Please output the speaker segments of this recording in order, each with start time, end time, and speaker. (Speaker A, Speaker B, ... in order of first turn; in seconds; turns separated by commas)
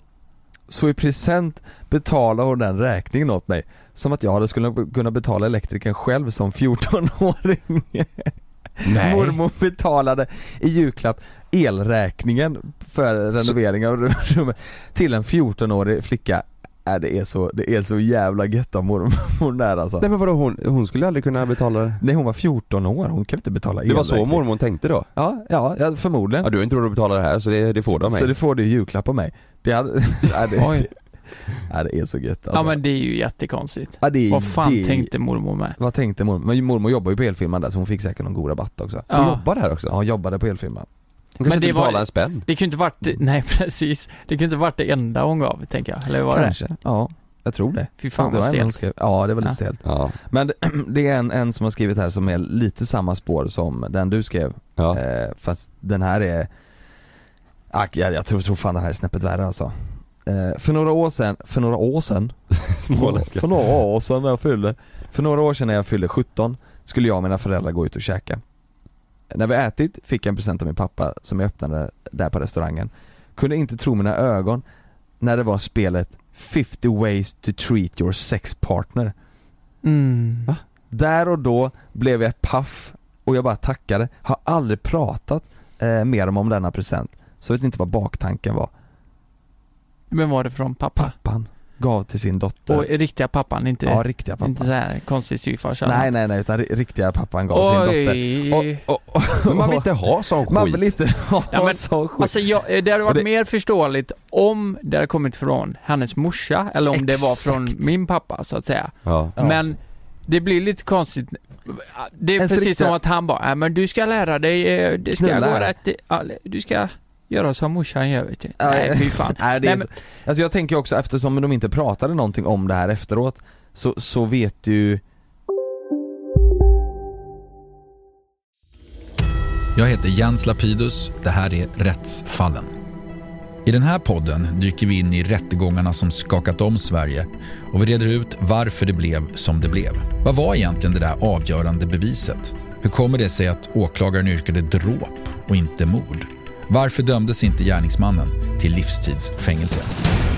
Speaker A: 0.7-20.1, Speaker B: 8.8-9.4, Speaker B: 20.0-22.0, Speaker A: 22.0-24.4, Speaker B: 23.9-25.1, Speaker A: 25.1-26.5, Speaker B: 26.4-28.3, Speaker A: 27.9-30.9, Speaker C: 30.6-30.9, Speaker A: 31.5-32.8, Speaker C: 32.5-35.8, Speaker A: 34.0-35.1, Speaker A: 35.8-39.1, Speaker C: 39.1-39.4, Speaker B: 39.1-40.0, Speaker A: 39.9-40.9, Speaker B: 41.4-42.5, Speaker C: 41.4-46.7, Speaker A: 46.3-56.5, Speaker C: 48.0-48.8, Speaker B: 49.8-50.2, Speaker A: 57.7-62.4, Speaker B: 62.7-63.5, Speaker A: 62.9-68.4, Speaker A: 69.3-74.6, Speaker A: 75.2-79.1, Speaker C: 79.8-80.5, Speaker A: 80.9-88.7, Speaker C: 90.1-91.2, Speaker A: 91.0-92.9, Speaker C: 92.7-96.1, Speaker A: 93.9-94.7, Speaker A: 95.8-102.4, Speaker C: 97.5-98.8, Speaker B: 99.5-100.9, Speaker C: 101.5-119.9, Speaker A: 106.9-107.7, Speaker B: 109.0-109.3, Speaker A: 112.4-113.0, Speaker A: 115.1-115.7, Speaker A: 118.6-125.0, Speaker D: 129.8-132.7, Speaker D: 133.7-149.9